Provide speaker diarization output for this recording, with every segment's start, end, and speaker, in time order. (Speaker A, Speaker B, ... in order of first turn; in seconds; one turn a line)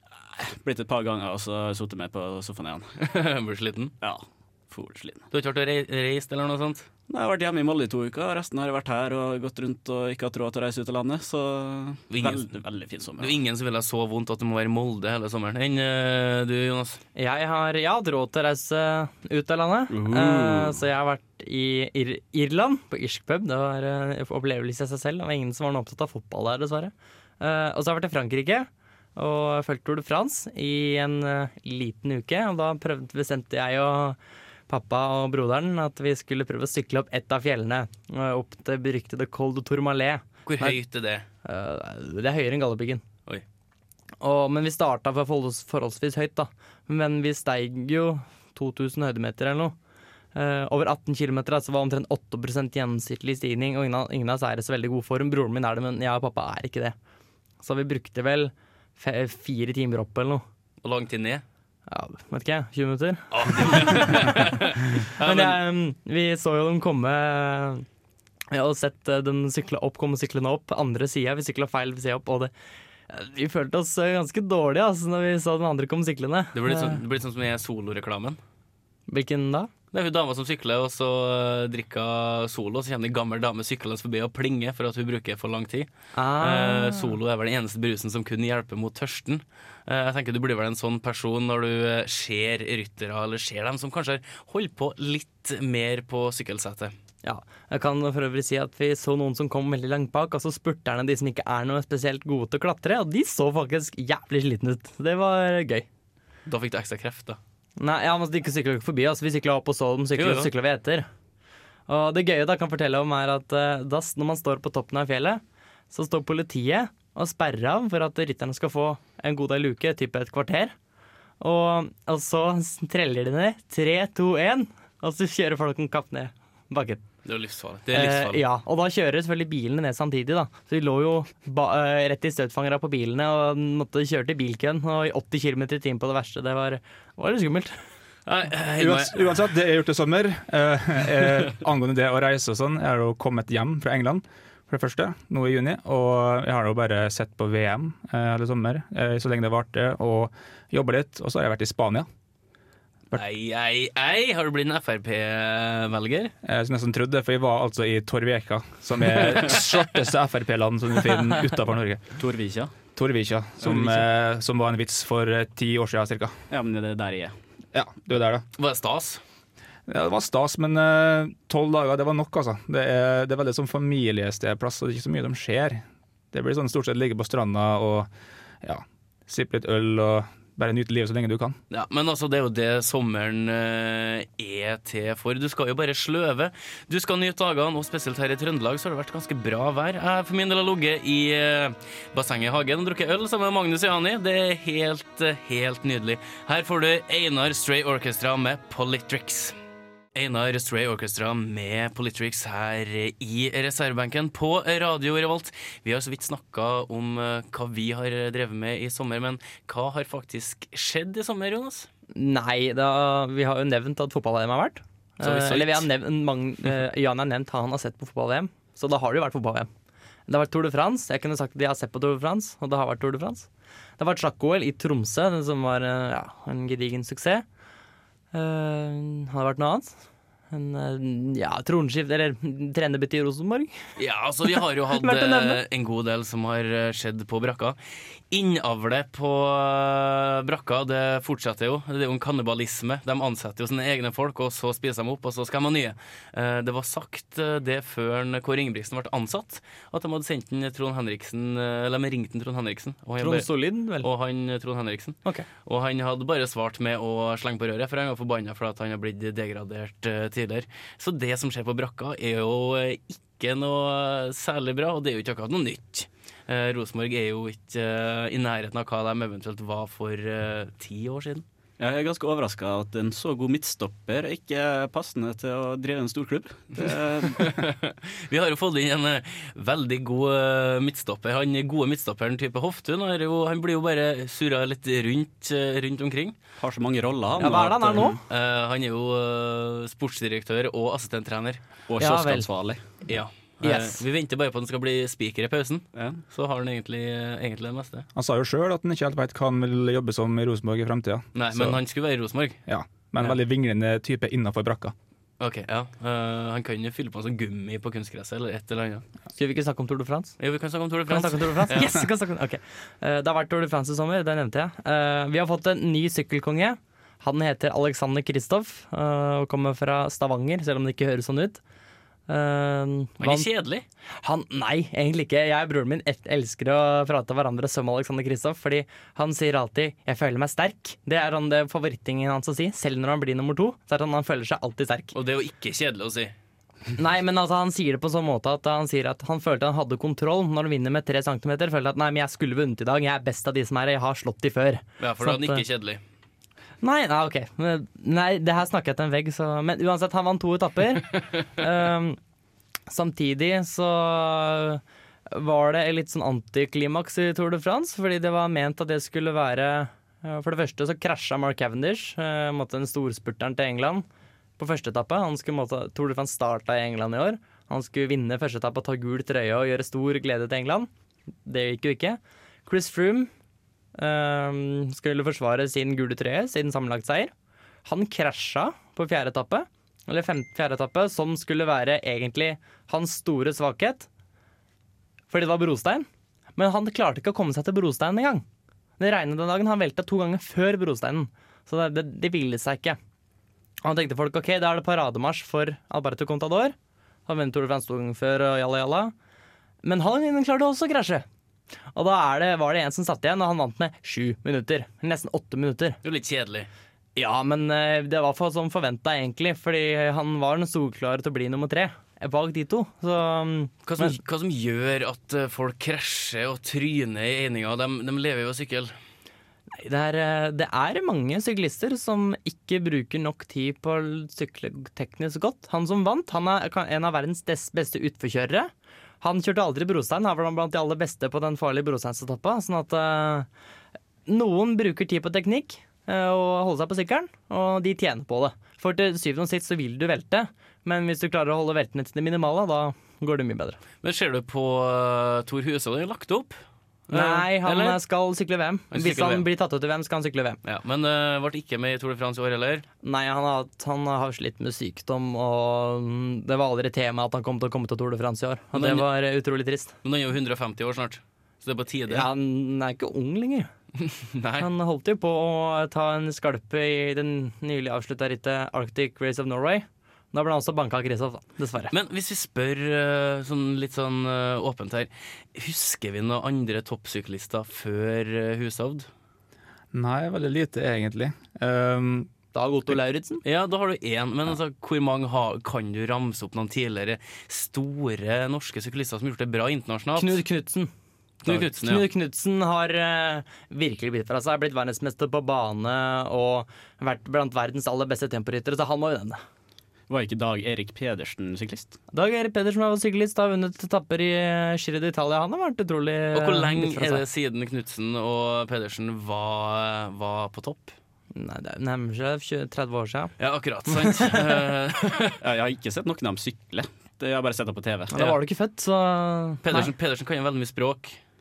Speaker A: 0.3-2.9
Speaker B: 3.0-3.9
Speaker A: 4.0-5.2
Speaker B: 5.3-6.9
Speaker A: 7.1-13.3
Speaker B: 12.1-12.6
Speaker B: 13.2-17.0
Speaker C: 17.1-34.2
Speaker A: 19.9-20.8
Speaker C: 34.7-40.8
Speaker B: 40.5-41.2
Speaker C: 41.4-43.0
Speaker C: 44.2-49.7
Speaker C: 50.3-57.0
Speaker C: 57.6-60.4
Speaker B: 60.8-61.4
Speaker C: 61.9-64.5
Speaker B: 63.3-65.6
Speaker C: 65.2-67.8
Speaker C: 68.5-72.5
Speaker C: 73.1-77.0
Speaker B: 76.5-78.4
Speaker C: 79.1-79.7
Speaker B: 79.9-85.9
Speaker C: 86.1-87.1
Speaker B: 86.4-96.9
Speaker C: 97.2-105.9
Speaker B: 106.5-107.4
Speaker C: 107.8-111.1
Speaker B: 110.2-110.5
Speaker C: 111.9-120.7
Speaker C: 121.4-127.0
Speaker B: 127.2-128.4
Speaker C: 127.9-137.7
Speaker B: 138.2-139.4
Speaker D: 138.8-152.1
Speaker B: 153.1-156.3
Speaker D: 156.4-162.0
Speaker B: 159.2-159.6
Speaker A: 162.2-162.7
Speaker D: 162.9-166.4
Speaker A: 163.6-164.1
Speaker A: 166.5-167.3
Speaker D: 167.7-168.4
Speaker B: 168.6-169.2
Speaker D: 169.9-178.1
Speaker D: 178.6-181.6
Speaker B: 181.7-199.5
Speaker B: 200.1-211.9
Speaker C: 212.1-219.7
Speaker B: 215.2-215.9
Speaker C: 220.3-227.4
Speaker C: 228.3-233.8
Speaker B: 234.0-237.8
Speaker C: 234.6-235.6
Speaker B: 238.3-271.4
Speaker C: 253.2-254.1
Speaker A: 271.8-277.6
Speaker B: 277.3-286.4
Speaker A: 286.6-288.2
Speaker C: 287.4-288.2
Speaker B: 288.2-291.6
Speaker A: 291.9-292.8
Speaker C: 292.0-292.5
Speaker B: 293.1-298.1
Speaker C: 293.6-294.0
Speaker A: 295.9-296.2
Speaker D: 298.1-301.8
Speaker B: 301.3-302.6
Speaker D: 302.7-304.9
Speaker B: 305.4-309.0
Speaker C: 309.4-310.4
Speaker B: 310.4-311.9
Speaker C: 311.1-321.6
Speaker C: 322.3-323.5
Speaker B: 323.2-323.8
Speaker C: 324.2-335.1
Speaker B: 335.1-336.3
Speaker C: 337.0-345.6
Speaker B: 345.0-346.0
Speaker C: 346.8-352.2
Speaker C: 352.9-364.0
Speaker C: 364.6-370.9
Speaker C: 371.4-373.3
Speaker C: 374.0-377.3
Speaker C: 377.8-384.1
Speaker C: 385.3-388.4
Speaker C: 389.0-393.0
Speaker C: 393.8-396.7
Speaker C: 397.3-399.1
Speaker C: 399.8-401.2
Speaker C: 401.9-406.0
Speaker B: 406.0-406.7
Speaker C: 407.1-414.1
Speaker B: 413.8-418.9
Speaker C: 419.7-433.5
Speaker C: 434.3-443.8
Speaker B: 444.0-446.6
Speaker B: 447.1-448.0
Speaker C: 447.1-450.6
Speaker B: 448.9-449.4
Speaker B: 450.6-452.9
Speaker C: 453.0-459.9
Speaker B: 458.7-459.1
Speaker B: 460.0-462.3
Speaker C: 462.1-463.7
Speaker B: 464.1-464.7
Speaker C: 464.6-471.9
Speaker B: 471.9-479.1
Speaker D: 479.9-482.3
Speaker C: 482.5-483.4
Speaker B: 483.4-490.4
Speaker C: 490.2-490.9
Speaker B: 491.4-492.1
Speaker C: 491.5-499.4
Speaker A: 500.1-501.9
Speaker C: 502.1-507.2
Speaker B: 506.3-510.9
Speaker C: 511.3-513.3
Speaker B: 513.4-515.3
Speaker C: 513.9-514.4
Speaker A: 515.4-518.1
Speaker C: 518.1-519.9
Speaker B: 519.6-521.2